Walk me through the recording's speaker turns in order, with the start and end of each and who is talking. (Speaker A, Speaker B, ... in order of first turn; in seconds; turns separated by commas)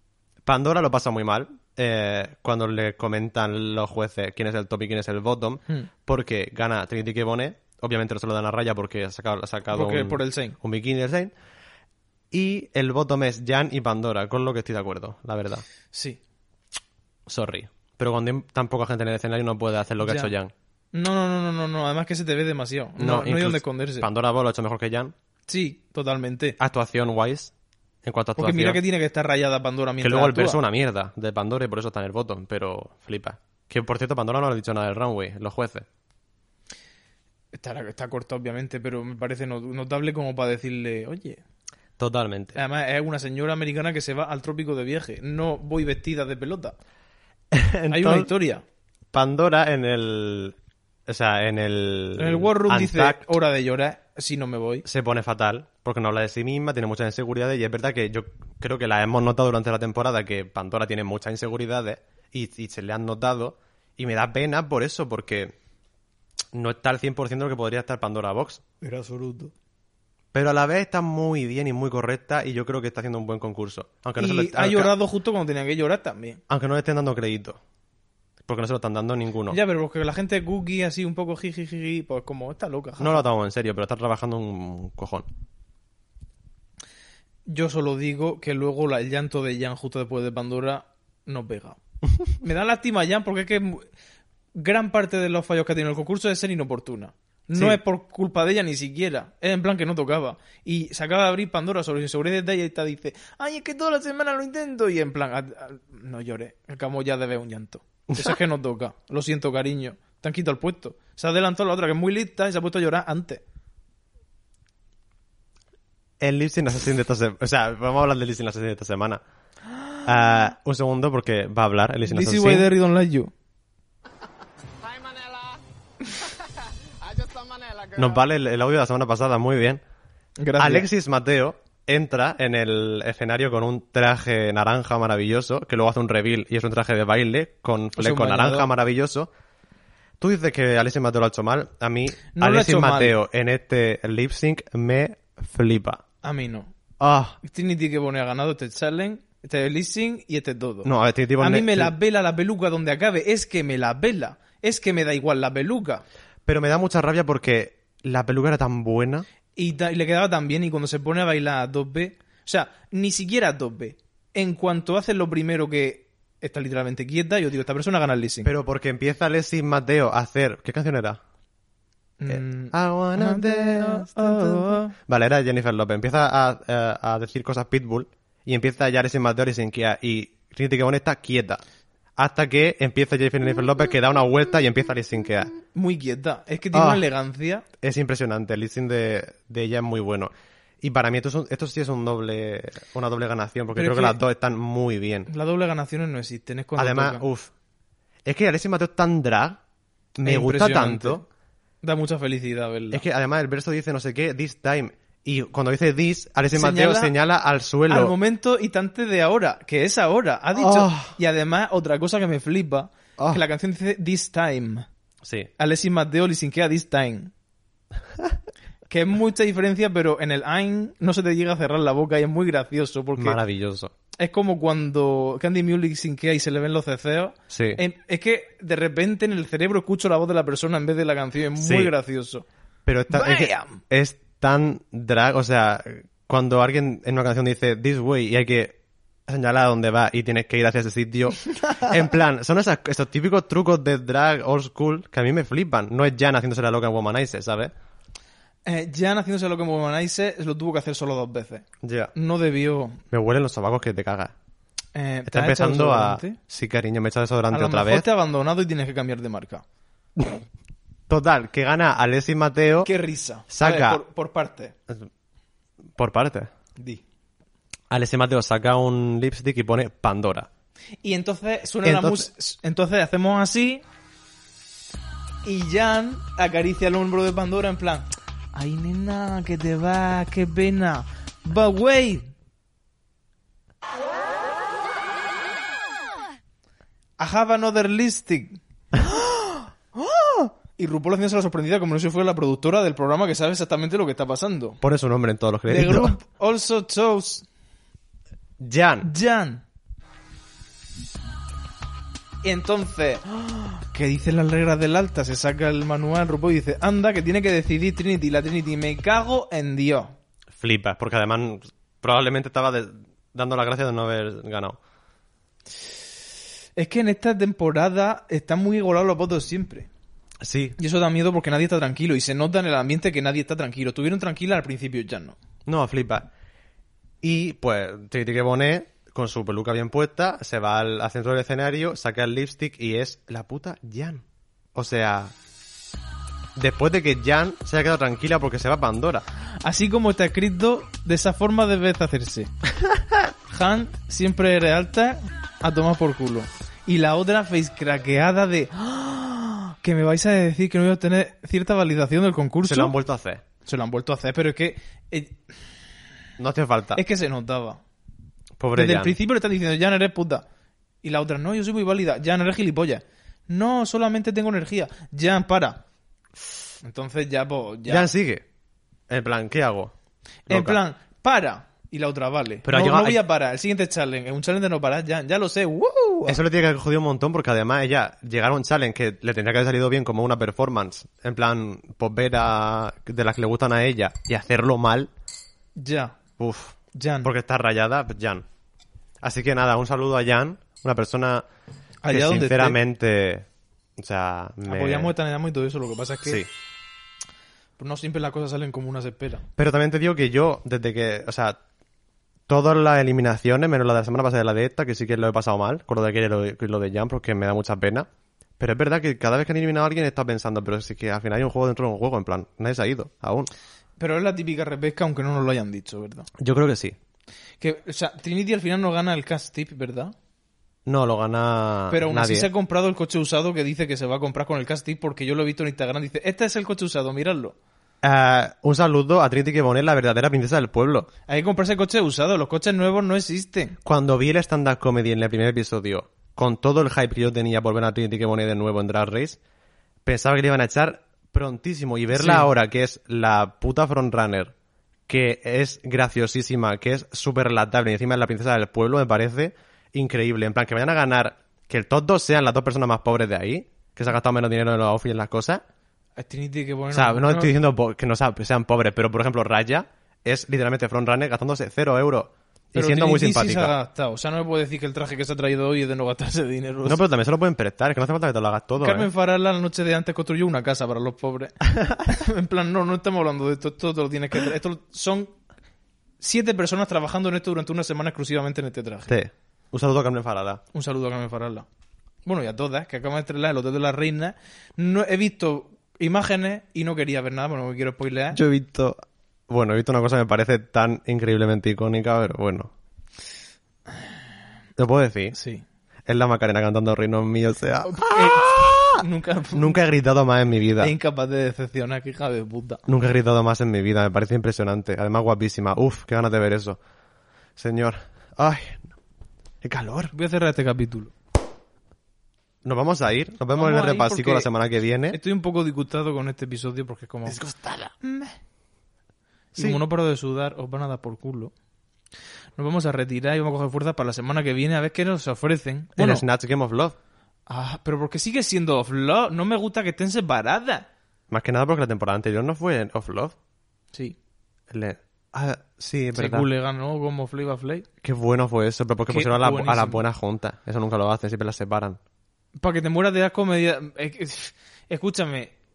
Speaker A: 0.4-11.3, Speaker B: 9.7-10.6, Speaker A: 12.3-15.6, Speaker B: 15.9-16.2, Speaker A: 17.2-20.5, Speaker B: 20.0-20.3, Speaker B: 20.9-24.1, Speaker A: 23.0-25.1, Speaker B: 25.5-26.6, Speaker A: 26.6-27.5, Speaker A: 28.0-28.8, Speaker B: 28.4-30.6, Speaker A: 30.0-35.9, Speaker B: 37.5-41.4, Speaker A: 42.0-42.6, Speaker B: 42.5-46.7, Speaker A: 47.5-48.3, Speaker B: 47.9-48.6, Speaker A: 49.1-50.5, Speaker A: 51.1-53.2, Speaker B: 52.1-54.9, Speaker A: 54.8-65.5, Speaker A: 66.5-68.6, Speaker B: 68.8-69.5, Speaker A: 70.3-74.9, Speaker B: 74.2-76.4, Speaker A: 76.5-77.6, Speaker A: 78.5-79.6, Speaker B: 79.5-83.3, Speaker A: 83.0-85.3, Speaker B: 87.5-91.8, Speaker B: 92.4-93.8, Speaker B: 94.5-113.4, Speaker A: 108.1-108.4, Speaker A: 116.2-119.2, Speaker A: 120.0-122.7, Speaker B: 122.0-123.3, Speaker C: 124.8-126.4, Speaker C: 127.0-128.2, Speaker A: 128.0-129.8, Speaker B: 130.4-130.9, Speaker A: 130.6-139.3, Speaker B: 137.9-138.7, Speaker A: 140.2-146.0, Speaker B: 142.3-143.1, Speaker B: 146.2-146.7, Speaker A: 147.0-147.4, Speaker B: 147.4-156.0, Speaker A: 150.8-151.9, Speaker A: 156.4-159.2, Speaker B: 159.6-168.5, Speaker A: 168.4-171.2, Speaker B: 172.2-174.9, Speaker A: 172.3-181.6, Speaker A: 182.2-185.5, Speaker B: 185.7-187.7, Speaker A: 186.7-187.0, Speaker A: 187.8-195.3, Speaker B: 193.7-194.2, Speaker B: 195.3-197.2, Speaker A: 196.8-197.5, Speaker A: 198.2-199.6, Speaker A: 200.2-201.2, Speaker B: 200.2-201.2, Speaker B: 201.8-203.0, Speaker A: 202.9-208.1, Speaker B: 206.5-207.1, Speaker B: 207.9-214.8, Speaker A: 210.5-211.1, Speaker A: 213.2-213.4, Speaker A: 215.2-215.5, Speaker B: 215.6-217.3, Speaker B: 218.9-223.4, Speaker A: 223.2-223.9, Speaker B: 224.2-232.4, Speaker A: 227.5-227.8, Speaker A: 231.6-231.9, Speaker A: 232.8-238.8, Speaker B: 233.1-233.8, Speaker A: 239.3-247.7, Speaker B: 248.6-253.0, Speaker A: 251.8-252.1, Speaker A: 253.1-254.3, Speaker B: 254.9-256.4, Speaker A: 255.3-258.1, Speaker B: 257.5-259.6, Speaker A: 260.2-260.4, Speaker A: 261.1-262.9, Speaker B: 262.8-264.7, Speaker A: 263.5-264.0, Speaker A: 265.9-266.5, Speaker B: 266.8-267.0, Speaker A: 267.9-270.5, Speaker B: 271.0-273.8, Speaker A: 271.8-272.3, Speaker B: 275.4-282.3, Speaker B: 287.2-294.8, Speaker A: 294.8-296.2, Speaker B: 295.7-297.4, Speaker A: 298.6-299.1, Speaker B: 299.0-299.6, Speaker B: 302.4-310.1, Speaker A: 310.5-314.8, Speaker B: 316.8-319.9, Speaker A: 320.4-320.8, Speaker B: 320.8-325.4, Speaker A: 325.6-326.3, Speaker A: 327.2-334.2, Speaker A: 334.7-335.3, Speaker A: 336.6-339.2, Speaker B: 339.6-342.5, Speaker B: 343.5-352.9, Speaker A: 352.6-353.4, Speaker B: 353.6-355.5, Speaker A: 356.4-357.0, Speaker B: 356.9-357.8, Speaker A: 358.6-359.1, Speaker B: 358.7-360.4, Speaker B: 361.0-365.8, Speaker B: 366.8-368.1, Speaker A: 367.9-368.4, Speaker A: 369.1-369.9, Speaker A: 370.5-370.8, Speaker B: 370.5-376.4, Speaker A: 372.6-373.2, Speaker A: 376.2-385.1, Speaker B: 385.8-386.2, Speaker A: 386.4-388.4, Speaker B: 386.9-387.3, Speaker A: 389.2-391.4, Speaker B: 392.0-392.8, Speaker A: 392.1-393.4, Speaker A: 394.0-395.1, Speaker B: 394.6-396.4, Speaker B: 397.8-399.4, Speaker A: 399.6-401.6, Speaker A: 402.5-408.1, Speaker A: 408.6-413.5, Speaker B: 414.0-416.3, Speaker A: 416.4-416.9, Speaker B: 417.6-420.1, Speaker A: 420.9-422.5, Speaker B: 421.9-427.6, Speaker A: 428.0-431.1, Speaker B: 431.3-433.8, Speaker A: 433.8-439.4, Speaker A: 440.0-444.5, Speaker B: 442.1-442.5, Speaker A: 445.1-455.6, Speaker B: 456.2-457.5, Speaker A: 456.9-463.7, Speaker B: 462.7-467.0, Speaker A: 466.8-469.1, Speaker B: 468.8-475.3, Speaker B: 476.2-479.1, Speaker A: 479.1-480.6, Speaker B: 480.7-481.6, Speaker B: 482.2-488.4, Speaker A: 488.3-492.7, Speaker A: 494.8-495.4, Speaker B: 495.3-495.6, Speaker A: 496.1-499.0, Speaker B: 497.8-499.8, Speaker A: 499.5-500.9, Speaker B: 500.8-502.8, Speaker A: 502.9-506.8, Speaker A: 507.6-508.9, Speaker A: 509.6-510.1, Speaker B: 510.1-511.1, Speaker A: 512.6-515.2, Speaker B: 513.5-514.5, Speaker B: 515.1-517.4, Speaker A: 517.2-517.9, Speaker B: 518.0-518.4, Speaker B: 519.5-521.5, Speaker B: 522.6-526.2, Speaker A: 526.0-526.9, Speaker B: 527.5-530.9, Speaker A: 531.3-533.3, Speaker A: 534.7-536.5, Speaker B: 536.1-537.9, Speaker A: 538.0-542.0, Speaker B: 539.1-540.0, Speaker B: 542.5-545.5